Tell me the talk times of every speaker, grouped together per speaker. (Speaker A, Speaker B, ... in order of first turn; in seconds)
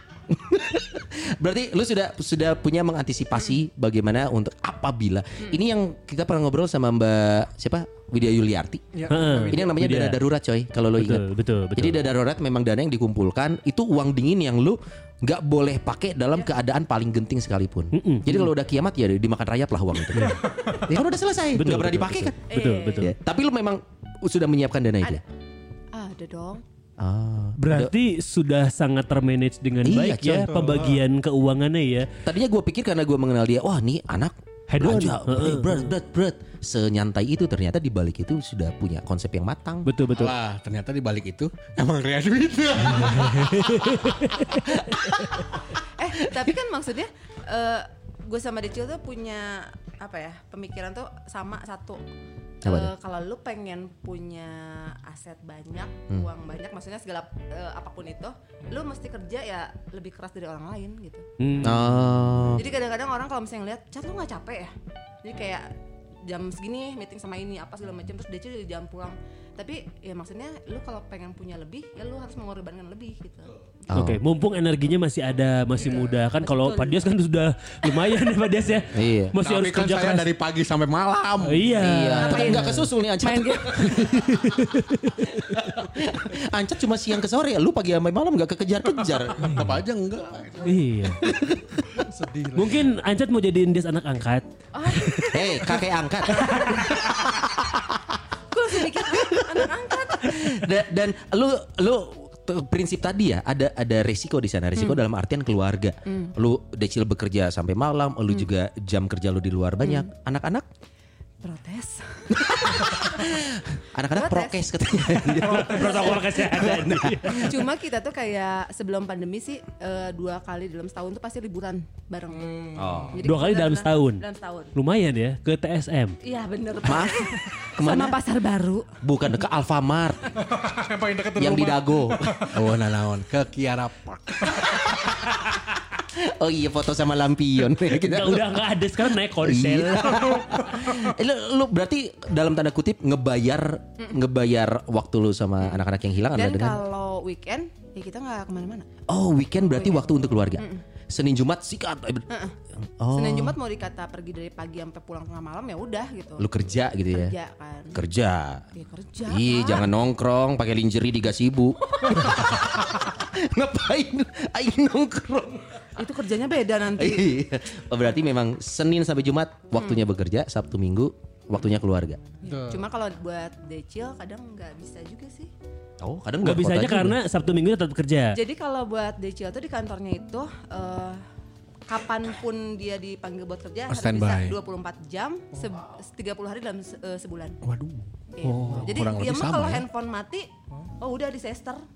Speaker A: 0.3-8.8, 9.5-11.2, 11.8-22.4, 23.0-25.2, 27.0-27.9, 29.8-30.5, 32.2-39.9, 52.6-52.9, 61.6-62.6, 73.9-74.2, 78.9-79.3, 81.8-84.7, 85.2-89.5, 91.2-91.8, 95.3-97.8, 98.9-110.7, 112.3-117.5, 122.8-123.2, 126.8-128.2, 129.0-130.3, 131.4-132.4, 134.6-138.6, 139.4-146.8, 149.1-152.3, 152.8-153.6, 156.4-157.3, 157.9-158.7, 159.3-165.8, 166.9-172.2, 176.0-177.2
Speaker B: 8.9-9.7, 30.4-31.0, 91.9-92.9, 115.5-116.0, 122.3-123.2, 130.4-132.7, 172.4-172.8
Speaker C: 9.1-10.2, 11.0-12.0, 17.9-18.5, 20.1-20.5, 21.6-23.1, 27.6-32.1, 34.7-35.9, 39.9-40.3, 43.0-45.3, 61.4-61.9, 73.9-80.3, 81.5-82.8, 83.8-85.5, 90.6-91.2, 92.5-95.3, 115.4-117.5, 123.2-124.2, 124.8-126.2, 138.0-140.3, 176.4-178.4, 188.4-188.9
Speaker D: 22.5-23.1, 25.9-26.6, 46.0-52.0, 52.6-61.3, 62.6-65.7, 66.2-73.5, 75.8-77.0, 82.2-84.1, 94.7-95.8, 96.4-96.9, 98.5-100.6, 104.8-105.0, 106.1-106.3, 109.8-110.1, 111.4-113.3, 114.1-114.7, 115.8-116.2, 117.3-122.5, 123.1-124.7, 126.2-128.9, 146.3-148.9, 149.6-150.8, 152.3-152.6, 153.1-156.5, 157.1-158.0, 158.7-159.9, 161.8-163.1, 166.0-167.3, 172.6-175.5, 178.3-181.2, 181.9-187.6, 188.3-190.5, 191.0-191.8
Speaker E: 40.1-44.1, 79.4-81.8, 89.5-90.8, 132.5-134.6, 183.9-184.6, 187.6-188.1, 188.8-189.8